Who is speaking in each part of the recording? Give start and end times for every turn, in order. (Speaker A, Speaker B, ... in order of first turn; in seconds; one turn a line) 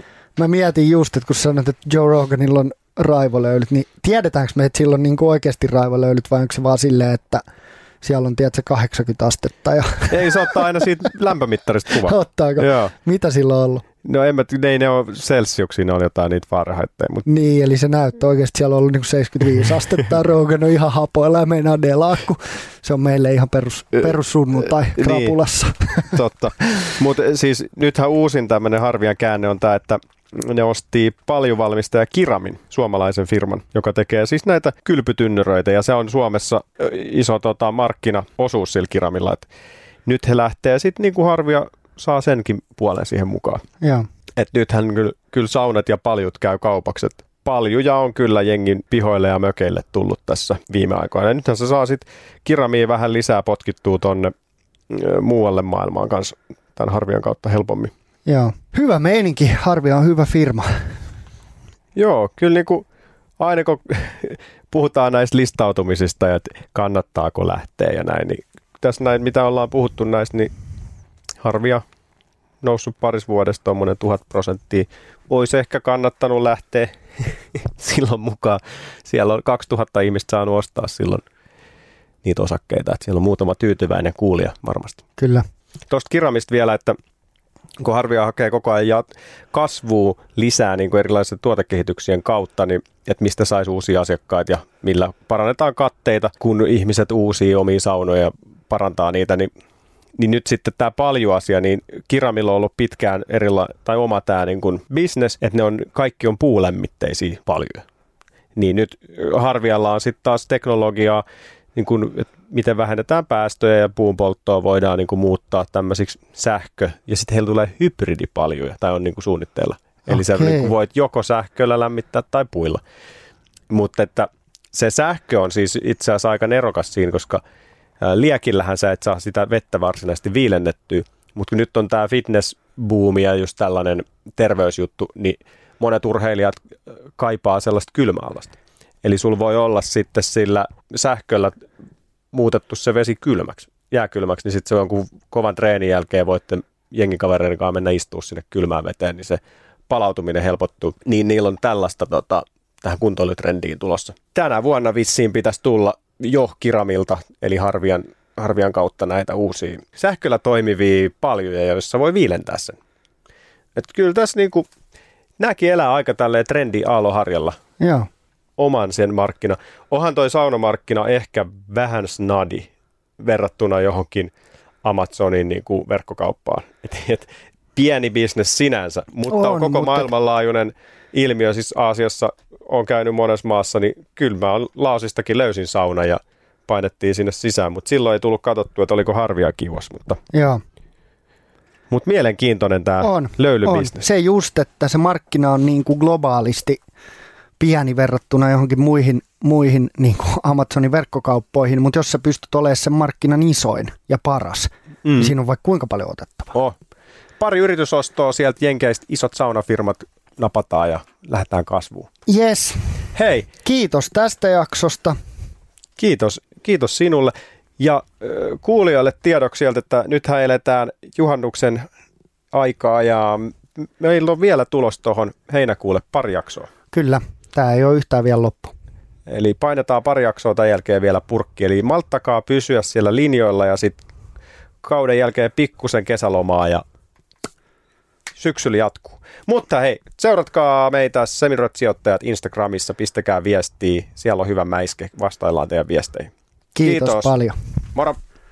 Speaker A: 0.3-7.4
Speaker A: 8.0-10.6
Speaker B: 10.1-12.9
Speaker A: 11.9-13.8
Speaker B: 14.0-17.3
Speaker A: 17.2-26.2
Speaker B: 24.9-25.4
Speaker B: 26.0-39.5
Speaker B: 40.0-43.6
Speaker A: 43.8-44.1
Speaker B: 44.4-54.3
Speaker B: 54.9-57.9
Speaker A: 58.2-61.0
Speaker B: 62.0-62.8
Speaker B: 63.4-70.5
Speaker B: 71.4-71.8
Speaker B: 72.6-81.2
Speaker B: 82.2-85.0
Speaker A: 85.2-85.4
Speaker B: 85.9-87.0
Speaker B: 87.8-99.5
Speaker B: 100.2-107.8
Speaker B: 108.5-111.2
Speaker B: 111.7-122.8
Speaker A: 120.1-120.7
Speaker B: 123.7-127.4
Speaker B: 128.0-136.6
Speaker B: 137.2-141.6
Speaker B: 142.3-162.8
Speaker B: 163.8-164.7
Speaker B: 165.4-167.6
Speaker A: 167.8-168.1
Speaker B: 168.6-174.3
Speaker B: 174.8-190.2
Speaker A: 179.3-180.1
Speaker A: 190.3-190.6
Speaker B: 191.9-194.0
Speaker A: 193.0-196.8
Speaker A: 197.6-206.5
Speaker B: 205.0-205.3
Speaker B: 207.4-212.1
Speaker A: 212.3-213.1
Speaker B: 213.1-213.5
Speaker A: 213.6-215.2
Speaker B: 216.0-221.8
Speaker B: 222.5-226.7
Speaker A: 226.9-228.7
Speaker B: 229.3-234.0
Speaker B: 234.8-236.8
Speaker B: 238.3-246.3
Speaker A: 246.7-247.5
Speaker B: 246.8-247.3